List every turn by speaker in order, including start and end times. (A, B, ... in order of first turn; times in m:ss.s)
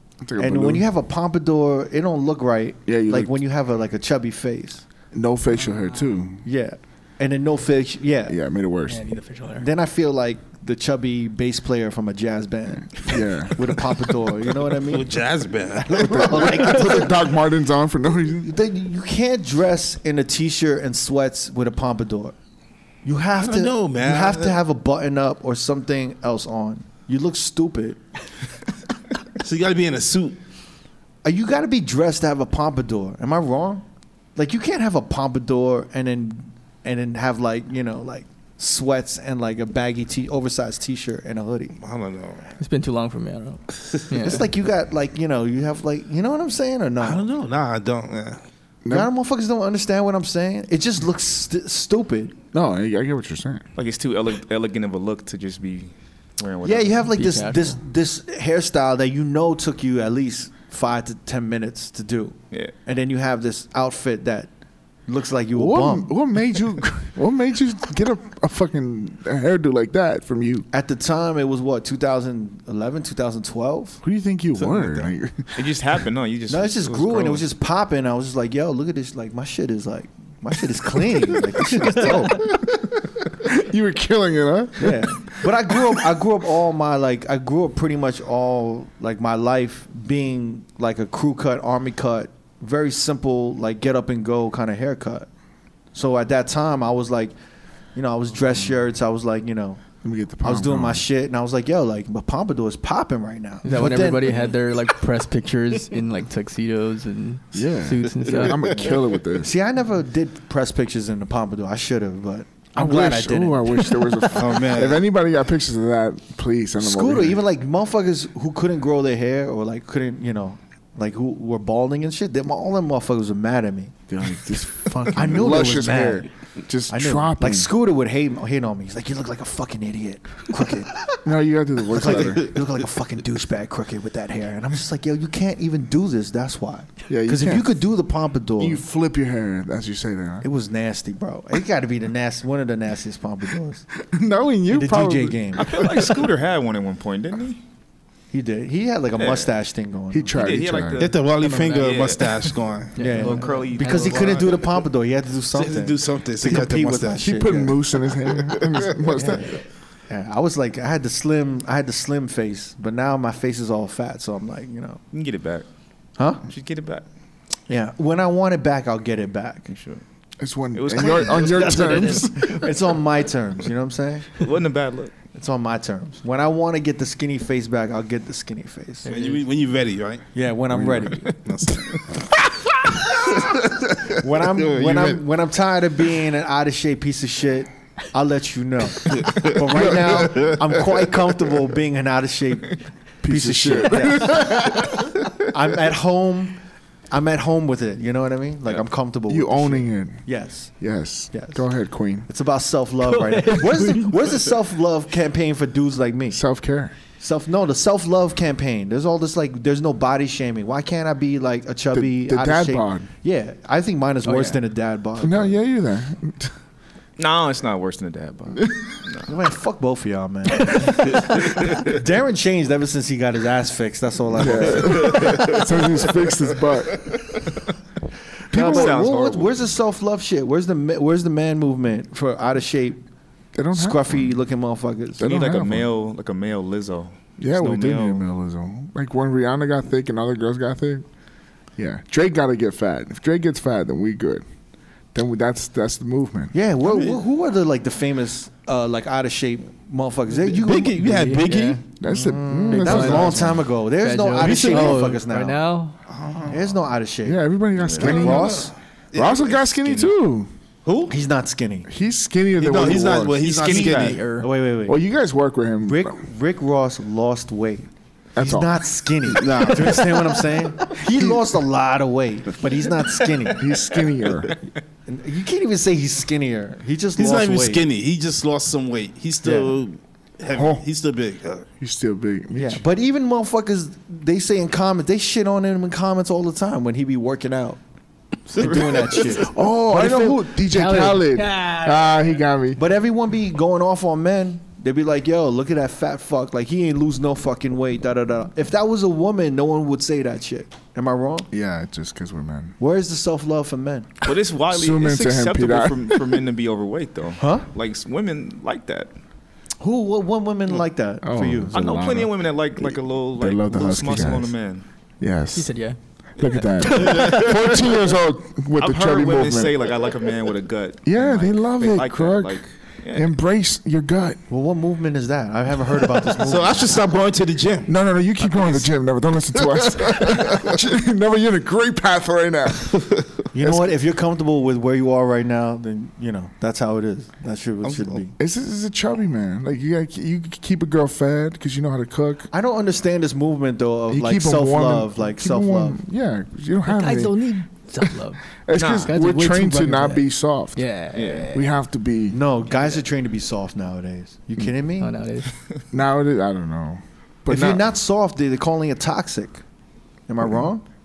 0:00.2-0:00.8 A
0:00.4-0:04.8 B
0:02.9-0:03.3 A
0:05.1-0:06.4 A
0:06.4-0:08.4 B
0:08.3-0:09.0 A
0:08.9-0:09.7 C
0:09.6-0:15.2 B
0:13.0-0:13.8 A
0:14.7-0:16.7 D
0:15.8-0:17.3 B
0:16.0-0:18.5 A
0:18.4-0:22.3 B
0:23.0-0:28.0 B
0:23.4-0:24.6 D
0:29.4-0:30.4 D
0:31.2-0:33.8 B
0:34.4-0:41.8 B
0:41.8-0:42.5 D
0:42.6-0:44.4 C
0:44.2-0:47.3 B
0:47.0-0:48.4 D
0:48.8-0:49.1 A
0:48.9-0:52.4 B
0:52.5-0:53.6 A
0:53.8-0:57.0 E
0:56.6-1:04.5 B
0:57.1-0:57.8 C
1:05.1-1:06.1 B
1:05.5-1:10.7 A
1:10.7-1:14.0 B
1:14.0-1:15.7 A
1:14.6-1:15.1 D
1:15.5-1:17.4 E
1:16.5-1:22.6 B
1:22.0-1:25.9 A
1:24.8-1:35.3 B
1:35.9-1:37.3 B
1:37.9-1:39.8 B
1:40.0-1:41.0 A
1:40.4-1:44.4 B
1:43.6-1:48.8 C
1:47.5-1:49.5 A
1:48.8-1:54.6 B
1:52.8-1:57.4 A
1:54.3-1:55.0 D
1:56.8-2:04.0 B
2:04.1-2:07.7 A
2:04.8-2:06.3 B
2:06.9-2:11.2 B
2:11.2-2:12.5 A
2:11.9-2:18.8 B
2:17.1-2:17.7 A
2:18.6-2:20.4 A
2:20.4-2:23.8 B
2:24.0-2:26.0 A
2:24.7-2:26.0 B
2:25.6-2:27.6 E
2:28.3-2:30.4 B
2:29.2-2:29.5 E
2:30.1-2:31.0 A
2:30.3-2:34.8 E
2:31.0-2:33.0 D
2:31.4-2:31.8 B
2:33.0-2:34.4 C
2:33.0-2:37.8 B
2:35.5-2:37.2 D
2:37.2-2:39.6 A
2:39.0-2:45.0 B
2:45.1-2:45.6 E
2:46.2-2:46.4 B
2:46.4-2:47.0 E
2:47.7-2:49.7 B
2:49.7-2:50.0 E
2:50.4-2:52.6 A
2:50.7-2:52.2 E
2:50.9-2:54.4 B
2:54.4-2:55.2 E
2:55.3-2:59.1 B
2:59.0-2:59.4 C
2:59.0-3:02.2 D
3:00.3-3:01.4 B
3:03.1-3:05.2 D
3:04.1-3:20.7 B
3:09.1-3:09.6 D
3:09.7-3:10.3 A
3:10.2-3:10.6 D
3:13.2-3:15.0 A
3:19.3-3:20.2 A
3:20.8-3:22.3 A
3:21.3-3:21.6 B
3:22.3-3:26.4 B
3:23.0-3:24.2 C
3:26.3-3:26.9 A
3:27.2-3:35.5 B
3:31.9-3:33.1 A
3:34.2-3:34.6 C
3:35.2-3:36.5 A
3:37.2-3:39.3 E
3:39.3-3:46.3 B
3:41.4-3:41.9 E
3:44.4-3:47.1 A
3:48.5-3:53.0 B
3:48.5-3:49.1 A
3:48.5-3:49.7 E
3:53.5-3:54.3 A
3:53.7-3:55.4 B
3:55.2-3:55.9 A
3:55.2-3:58.2 E
3:57.4-4:01.0 A
4:01.8-4:04.4 A
4:05.1-4:06.5 A
4:06.5-4:11.0 B
4:06.8-4:07.2 D
4:10.4-4:11.9 D
4:11.0-4:11.8 C
4:12.0-4:13.6 A
4:12.0-4:15.6 B
4:12.7-4:16.0 C
4:14.4-4:15.0 D
4:16.1-4:16.6 D
4:16.5-4:18.7 B
4:17.2-4:20.5 A
4:17.8-4:18.4 E
4:18.3-4:20.0 D
4:20.8-4:21.1 D
4:21.1-4:21.9 B
4:21.9-4:23.5 A
4:22.6-4:24.3 D
4:23.4-4:24.2 E
4:23.6-4:24.5 C
4:24.4-4:25.0 B
4:24.9-4:26.2 A
4:25.8-4:33.7 B
4:28.4-4:30.0 A
4:29.3-4:30.2 D
4:31.0-4:31.5 A
4:33.5-4:34.5 A
4:35.0-4:37.8 B
4:37.2-4:41.6 D
4:39.4-4:39.8 B
4:40.5-4:40.8 A
4:41.8-4:42.8 A
4:42.5-4:47.8 B
4:48.5-4:50.3 B
4:48.6-4:49.0 D
4:49.3-4:52.8 A
4:50.0-4:52.3 C
4:52.8-5:01.5 B
5:01.5-5:02.8 A
5:02.8-5:04.1 B
5:04.2-5:09.1 E
5:04.7-5:06.4 A
5:07.4-5:07.7 B
5:09.8-5:11.7 B
5:11.2-5:14.5 A
5:11.7-5:14.8 E
5:15.2-5:15.7 A
5:15.5-5:16.0 C
5:16.4-5:19.8 A
5:16.8-5:17.8 C
5:18.8-5:23.3 E
5:21.0-5:22.6 A
5:23.1-5:24.4 A
5:24.5-5:27.0 B
5:26.2-5:27.9 D
5:27.8-5:33.9 A
5:32.9-5:33.4 D
5:33.5-5:38.3 B
5:37.8-5:38.2 D
5:38.4-5:42.5 A
5:42.5-5:46.0 B
5:44.1-5:47.4 A
5:46.8-5:48.5 C
5:48.6-5:50.8 A
5:48.7-5:49.1 E
5:49.0-5:51.7 C
5:51.1-5:51.5 E
5:51.5-5:52.4 A
5:52.3-5:55.1 B
5:55.0-5:55.5 C
5:55.9-5:57.8 A
5:57.5-5:59.6 B
6:00.3-6:00.8 B